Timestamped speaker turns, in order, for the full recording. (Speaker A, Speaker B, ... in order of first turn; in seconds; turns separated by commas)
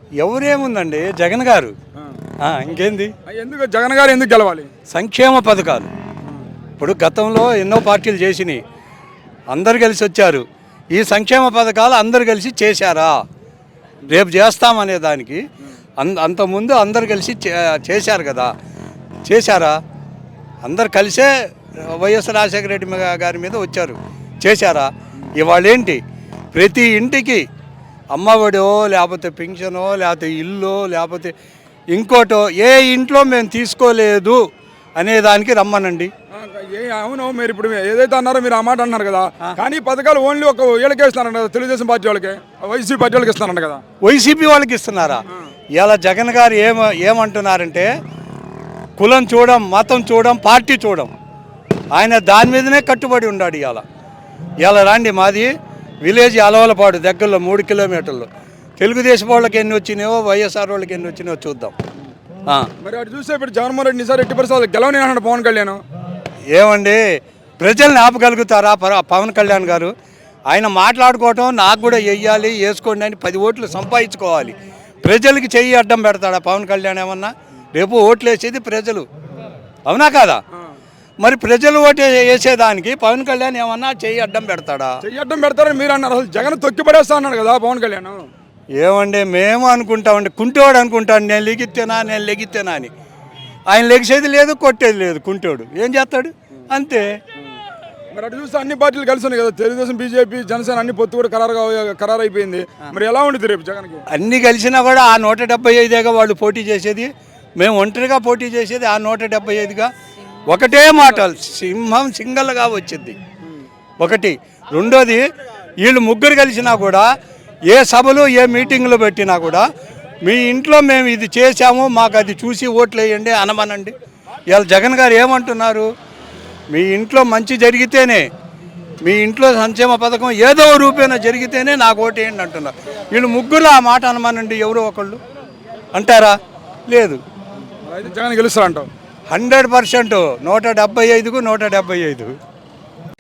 Speaker A: 0.2-1.7, Speaker A: 2.4-3.1, Speaker B: 3.3-4.7, Speaker A: 4.9-5.9, Speaker A: 6.8-8.6, Speaker A: 9.5-13.2, Speaker A: 14.1-15.4, Speaker A: 16.0-18.5, Speaker A: 19.3-19.8, Speaker A: 20.6-26.0, Speaker A: 26.5-27.4, Speaker A: 28.1-31.3, Speaker A: 31.9-34.4, Speaker A: 35.0-36.1, Speaker B: 36.3-43.8, Speaker A: 44.0-45.2, Speaker A: 45.8-47.9, Speaker A: 49.0-51.1, Speaker A: 51.9-53.8, Speaker A: 54.6-55.5, Speaker A: 56.0-61.7, Speaker B: 62.8-65.8, Speaker A: 66.5-67.0, Speaker A: 67.6-69.9, Speaker A: 70.5-79.1, Speaker A: 79.9-80.4, Speaker A: 81.2-84.9, Speaker B: 85.0-88.3, Speaker A: 88.8-92.9, Speaker A: 93.7-97.1, Speaker B: 98.1-104.0, Speaker A: 104.1-109.9, Speaker A: 110.5-113.2, Speaker A: 114.0-115.2, Speaker A: 115.8-117.1, Speaker A: 117.7-119.7, Speaker A: 120.2-124.0, Speaker A: 124.5-125.9, Speaker A: 126.7-128.3, Speaker A: 129.1-135.2, Speaker A: 135.9-136.3, Speaker A: 136.9-137.2, Speaker B: 137.8-138.9, Speaker A: 139.3-142.3